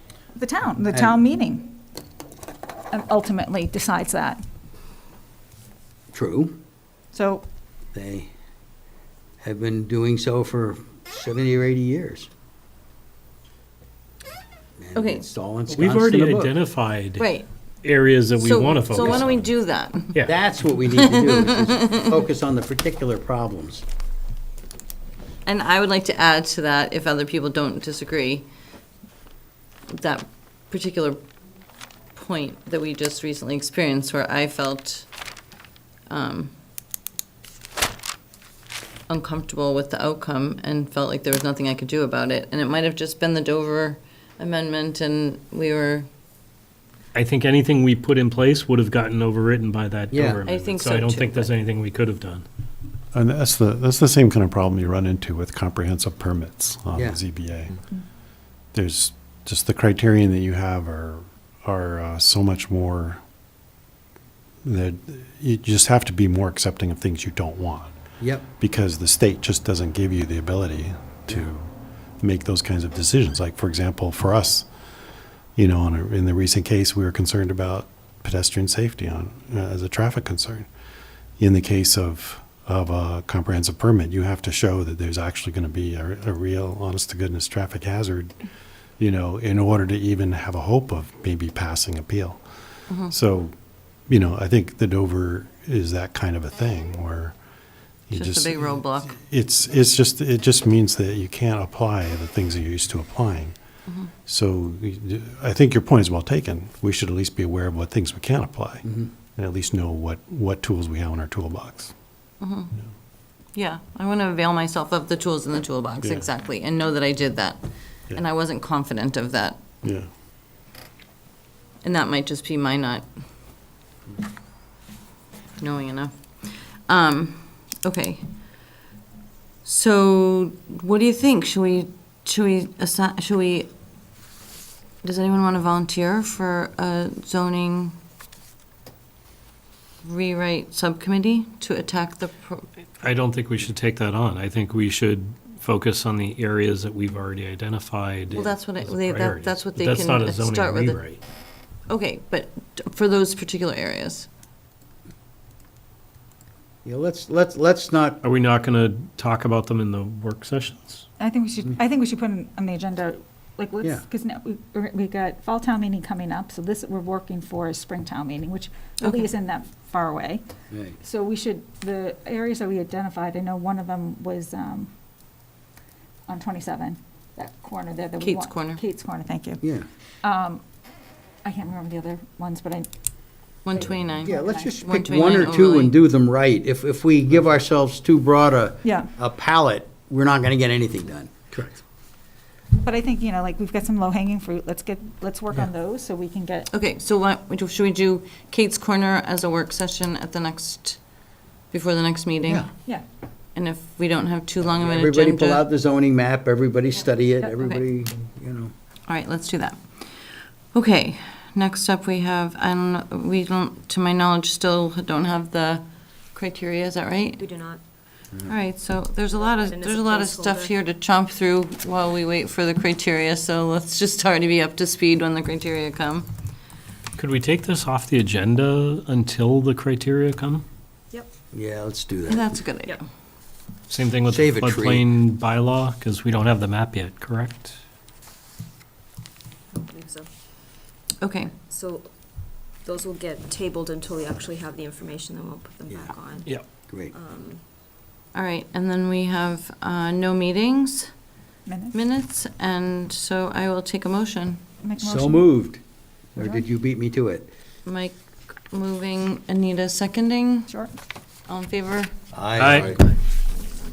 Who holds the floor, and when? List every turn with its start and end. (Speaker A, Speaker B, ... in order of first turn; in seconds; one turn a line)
Speaker A: 0.3-1.8
Speaker A: 2.9-4.4
Speaker B: 6.1-6.5
Speaker A: 7.1-7.5
Speaker B: 7.9-8.3
Speaker B: 9.4-12.3
Speaker B: 14.8-16.5
Speaker C: 14.9-15.3
Speaker D: 15.7-17.3
Speaker C: 17.2-17.5
Speaker D: 17.8-19.4
Speaker C: 18.4-20.3
Speaker B: 20.2-23.8
Speaker C: 20.9-22.0
Speaker C: 25.4-28.5
Speaker C: 29.9-31.2
Speaker C: 32.1-35.1
Speaker C: 36.1-36.5
Speaker C: 39.1-46.1
Speaker D: 47.1-52.5
Speaker B: 50.1-50.4
Speaker C: 50.5-51.5
Speaker E: 53.1-57.8
Speaker E: 58.7-63.2
Speaker E: 64.6-67.9
Speaker B: 68.2-68.5
Speaker E: 68.6-71.7
Speaker E: 72.2-74.7
Speaker E: 75.6-80.7
Speaker E: 81.4-88.3
Speaker E: 89.0-92.4
Speaker E: 93.1-93.5
Speaker E: 94.1-97.4
Speaker E: 98.1-103.5
Speaker C: 98.1-99.2
Speaker E: 104.3-111.9
Speaker B: 108.8-109.1
Speaker C: 112.4-112.7
Speaker C: 113.5-119.6
Speaker E: 116.0-116.3
Speaker E: 119.8-120.1
Speaker C: 121.8-123.1
Speaker C: 125.6-128.2
Speaker C: 129.7-133.7
Speaker C: 135.0-138.0
Speaker C: 140.0-142.7
Speaker D: 143.0-151.2
Speaker C: 148.3-151.0
Speaker C: 151.9-154.3
Speaker B: 156.8-158.2
Speaker D: 158.2-161.1
Speaker A: 161.2-170.4
Speaker C: 169.0-169.3
Speaker B: 170.7-171.0
Speaker A: 171.0-174.9
Speaker A: 176.3-179.6
Speaker C: 178.2-178.8
Speaker A: 180.2-180.6
Speaker A: 181.4-182.9
Speaker C: 183.7-186.0
Speaker A: 183.7-184.8
Speaker B: 184.2-191.3
Speaker A: 188.8-189.1
Speaker D: 191.5-191.8
Speaker A: 192.8-196.7
Speaker C: 196.7-201.0
Speaker C: 201.7-202.7
Speaker C: 203.6-205.7
Speaker B: 204.8-208.7
Speaker C: 209.1-217.4
Speaker F: 217.4-217.8
Speaker C: 218.5-226.3
Speaker F: 219.3-220.6
Speaker D: 227.2-230.7
Speaker B: 231.5-232.5
Speaker C: 232.3-233.0
Speaker D: 233.9-237.8
Speaker B: 234.3-235.0
Speaker F: 239.7-240.3
Speaker C: 241.2-241.5
Speaker F: 241.6-246.5
Speaker B: 245.9-246.1
Speaker F: 247.1-247.6
Speaker C: 248.3-251.1
Speaker A: 251.7-252.0
Speaker C: 251.9-254.6
Speaker A: 254.8-255.5
Speaker B: 255.0-255.8
Speaker B: 256.4-257.5
Speaker A: 256.4-256.6
Speaker C: 257.9-258.2
Speaker C: 258.7-260.7
Speaker A: 260.7-260.9
Speaker C: 261.5-262.1
Speaker B: 262.3-263.0
Speaker D: 262.6-263.0